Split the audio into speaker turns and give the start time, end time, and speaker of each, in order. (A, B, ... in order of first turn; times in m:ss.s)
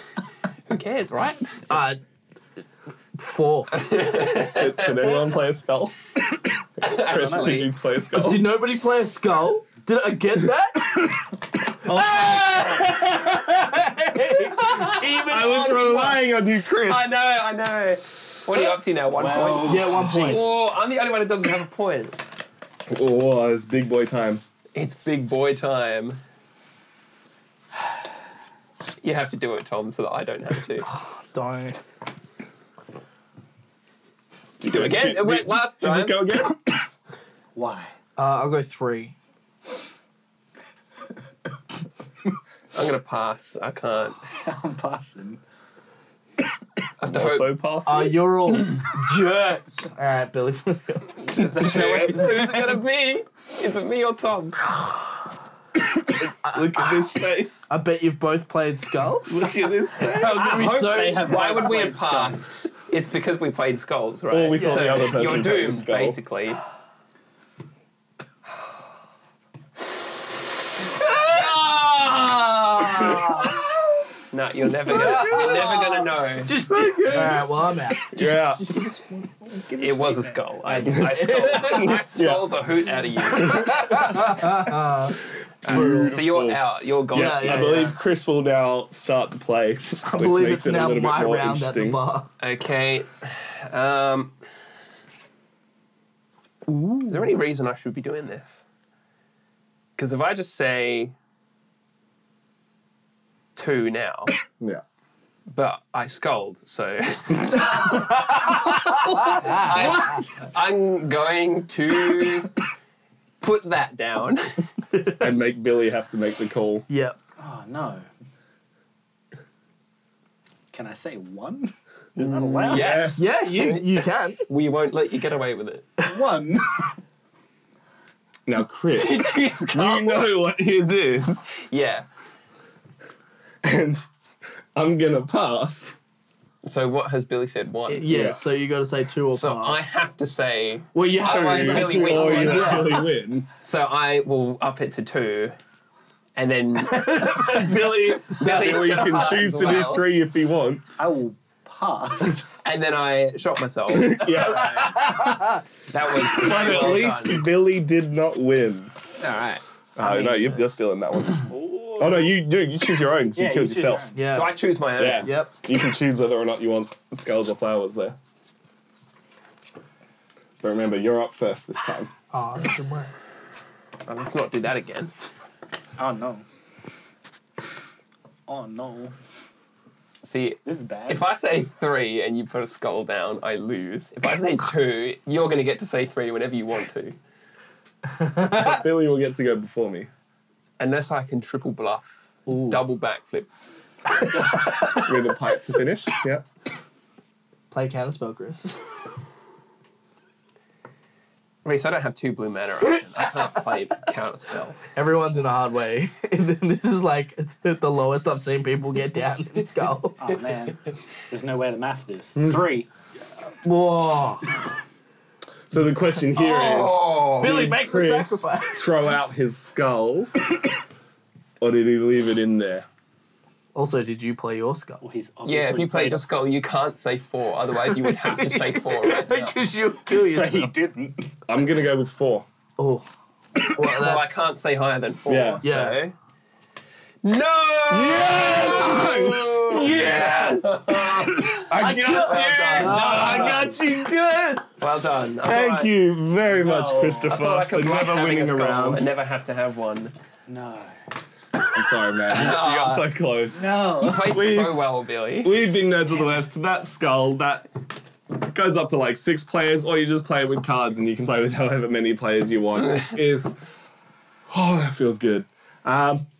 0:00.7-0:01.4 A
0:01.7-0:02.0 B
0:03.2-0:03.8 B
0:03.7-0:05.2 A
0:04.5-0:06.0 C
0:06.8-0:07.7 A
0:07.0-0:08.4 C
0:07.0-0:07.6 D
0:08.1-0:16.2 B
0:12.1-0:12.9 A
0:14.6-0:14.9 A
0:15.2-0:17.2 C
0:16.8-0:22.2 A
0:19.1-0:20.5 D
0:19.6-0:20.5 B
0:22.9-0:24.4 C
0:24.7-0:26.2 A
0:29.0-0:30.9 A
0:30.8-0:31.8 B
0:34.6-0:36.6 C
0:34.6-0:36.3 A
0:37.5-0:37.9 D
0:38.2-0:39.1 B
0:42.7-0:44.3 A
0:44.4-0:45.4 D
0:47.0-0:47.5 A
0:47.1-0:48.2 C
0:47.8-0:51.7 B
0:51.3-0:54.7 A
0:51.4-0:52.7 D
0:51.6-0:52.2 C
0:56.2-0:57.1 B
0:56.5-0:57.7 C
0:57.7-1:01.2 B
0:59.3-1:00.5 C
1:00.1-1:02.6 D
1:01.2-1:06.6 A
1:04.3-1:06.2 C
1:04.6-1:05.4 B
1:11.1-1:13.6 B
1:14.3-1:16.6 A
1:14.8-1:22.0 B
1:14.9-1:15.6 C
1:16.6-1:17.4 C
1:18.1-1:18.7 C
1:19.8-1:23.8 A
1:20.8-1:22.5 C
1:23.3-1:24.1 C
1:23.4-1:26.2 B
1:25.6-1:32.0 C
1:25.6-1:27.9 A
1:27.1-1:28.0 B
1:30.0-1:32.3 B
1:32.4-1:34.4 A
1:36.7-1:37.3 C
1:37.1-1:38.6 A
1:40.0-1:41.1 A
1:43.5-1:44.3 A
1:45.5-1:52.5 A
1:48.6-1:49.6 B
1:49.6-1:50.2 D
1:53.4-1:54.6 A
1:55.2-1:56.9 C
1:56.9-1:57.2 B
1:57.4-1:58.0 D
2:00.7-2:03.2 D
2:02.2-2:05.9 A
2:02.7-2:03.2 C
2:03.2-2:04.4 B
2:06.0-2:06.9 D
2:08.5-2:11.4 C
2:09.0-2:10.3 A
2:11.5-2:12.1 A
2:13.6-2:14.0 C
2:14.8-2:16.0 C
2:16.6-2:18.1 A
2:17.9-2:19.9 B
2:18.1-2:18.4 C
2:19.3-2:23.0 A
2:20.9-2:23.1 B
2:21.3-2:23.5 C
2:23.6-2:25.6 A
2:26.4-2:27.4 A
2:26.8-2:29.4 B
2:28.4-2:30.1 A
2:28.4-2:31.0 C
2:31.0-2:32.4 D
2:32.6-2:34.9 A
2:33.9-2:35.0 C
2:34.3-2:35.6 B
2:35.9-2:37.4 A
2:36.4-2:38.9 C
2:39.2-2:40.6 A
2:40.0-2:44.1 C
2:41.5-2:42.3 D
2:43.4-2:44.2 D
2:44.1-2:45.5 B
2:44.3-2:45.3 A
2:45.0-2:48.2 C
2:50.6-2:52.1 C
2:52.3-2:53.1 B
2:54.0-2:55.1 A
2:56.0-2:56.4 D
2:58.5-2:59.1 D
3:00.2-3:07.2 A
3:00.6-3:01.3 D
3:08.2-3:08.7 B
3:08.4-3:10.1 C
3:10.8-3:13.5 A
3:12.5-3:12.8 B
3:14.3-3:15.1 D
3:15.0-3:16.4 C
3:17.7-3:18.8 B
3:21.6-3:24.8 A
3:24.9-3:30.2 B
3:30.2-3:32.9 D
3:33.4-3:34.5 B
3:35.7-3:40.3 C
3:36.3-3:37.6 A
3:37.4-3:39.2 B
3:41.6-3:42.8 C
3:43.7-3:45.0 B
3:45.0-3:46.4 D
3:45.4-3:49.6 A
3:47.8-3:50.7 B
3:50.1-3:51.3 D
3:51.5-3:52.4 C
3:52.8-3:53.1 B
3:53.6-3:54.5 B
3:53.8-3:56.1 A
3:55.3-3:55.6 C
3:55.6-3:56.0 B
3:57.2-4:03.6 A
3:57.9-4:00.4 C
4:01.4-4:03.6 B
4:01.7-4:04.6 C
4:02.1-4:03.6 D
4:04.8-4:05.9 A
4:05.4-4:09.1 C
4:06.5-4:07.4 D
4:07.2-4:10.1 A
4:10.5-4:10.9 D
4:11.7-4:14.8 C
4:12.3-4:13.1 A
4:13.5-4:14.4 D
4:14.0-4:15.6 A
4:15.4-4:17.7 C
4:18.3-4:23.5 C
4:24.5-4:26.3 C